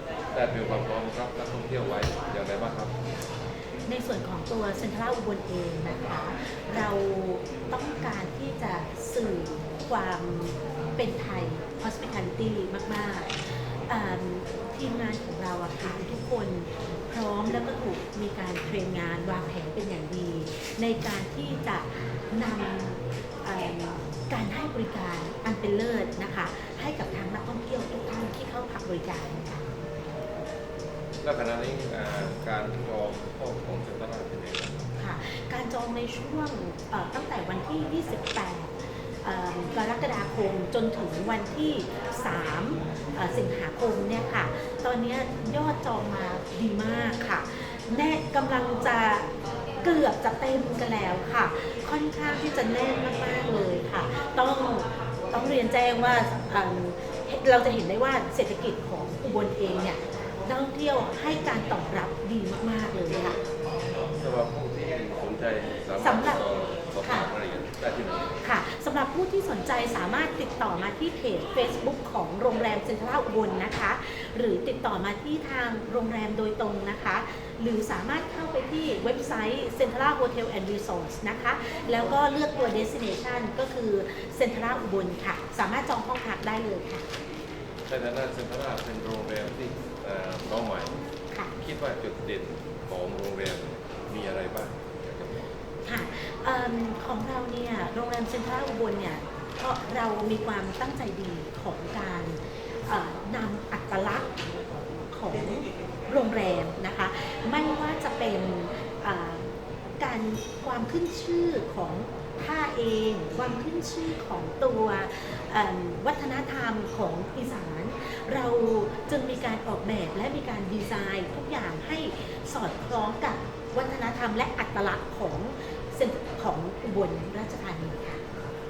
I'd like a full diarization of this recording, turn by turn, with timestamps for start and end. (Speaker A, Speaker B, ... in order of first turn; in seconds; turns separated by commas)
Speaker A: 0.3-2.9, Speaker B: 3.9-29.6, Speaker A: 31.2-34.8, Speaker B: 35.0-63.4, Speaker A: 64.1-68.4, Speaker B: 66.0-66.4, Speaker B: 68.4-87.1, Speaker A: 87.8-91.0, Speaker A: 91.6-95.5, Speaker B: 95.8-128.2